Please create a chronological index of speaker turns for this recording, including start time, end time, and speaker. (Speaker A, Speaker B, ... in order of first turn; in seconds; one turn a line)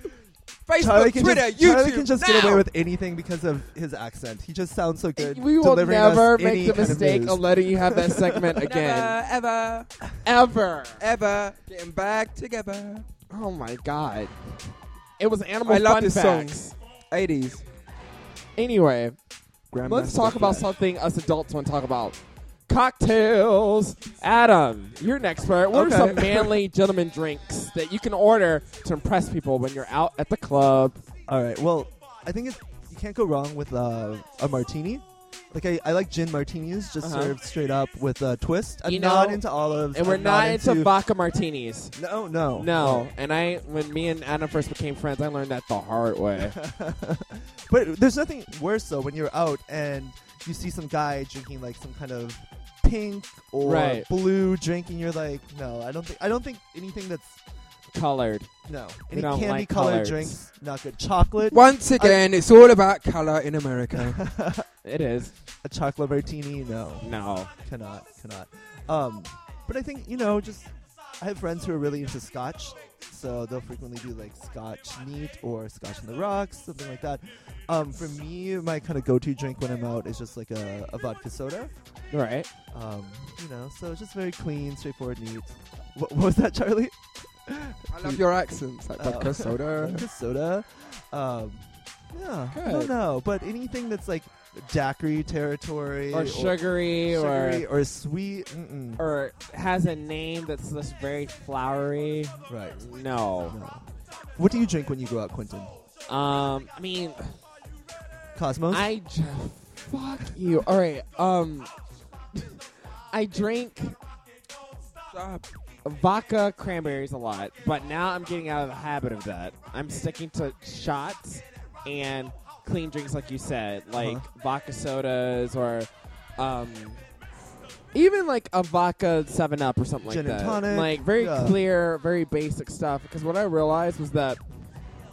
Speaker A: 0.7-2.7
Speaker B: 0.8-8.6
Speaker C: 5.2-9.2
Speaker A: 8.6-9.9
Speaker C: 10.2-11.0
Speaker A: 11.0-13.1
Speaker C: 13.3-14.3
Speaker C: 15.2-16.7
Speaker A: 15.7-17.6
Speaker C: 18.6-19.2
Speaker A: 19.7-20.7
Speaker C: 19.9-31.0
Speaker B: 25.7-26.6
Speaker B: 31.3-41.0
Speaker C: 37.0-37.4
Speaker C: 38.9-41.9
Speaker B: 42.0-43.1
Speaker C: 42.6-46.6
Speaker B: 46.4-57.4
Speaker C: 53.6-54.1
Speaker C: 57.9-58.5
Speaker B: 58.7-62.2
Speaker C: 59.1-60.4
Speaker A: 61.5-64.2
Speaker B: 63.9-64.7
Speaker C: 64.8-65.3
Speaker B: 65.6-67.1
Speaker C: 67.0-67.5
Speaker B: 67.6-81.7
Speaker C: 82.1-82.5
Speaker B: 82.7-88.2
Speaker A: 87.9-90.1
Speaker B: 89.0-99.0
Speaker C: 92.5-92.9
Speaker C: 96.1-97.7
Speaker C: 99.0-103.6
Speaker B: 102.5-102.8
Speaker B: 103.5-103.8
Speaker B: 104.4-105.7
Speaker C: 106.1-107.3
Speaker B: 108.3-108.9
Speaker C: 108.7-111.7
Speaker C: 113.1-114.0
Speaker A: 115.1-115.5
Speaker C: 115.8-127.0
Speaker B: 124.0-124.2
Speaker C: 127.9-134.4
Speaker B: 130.0-131.6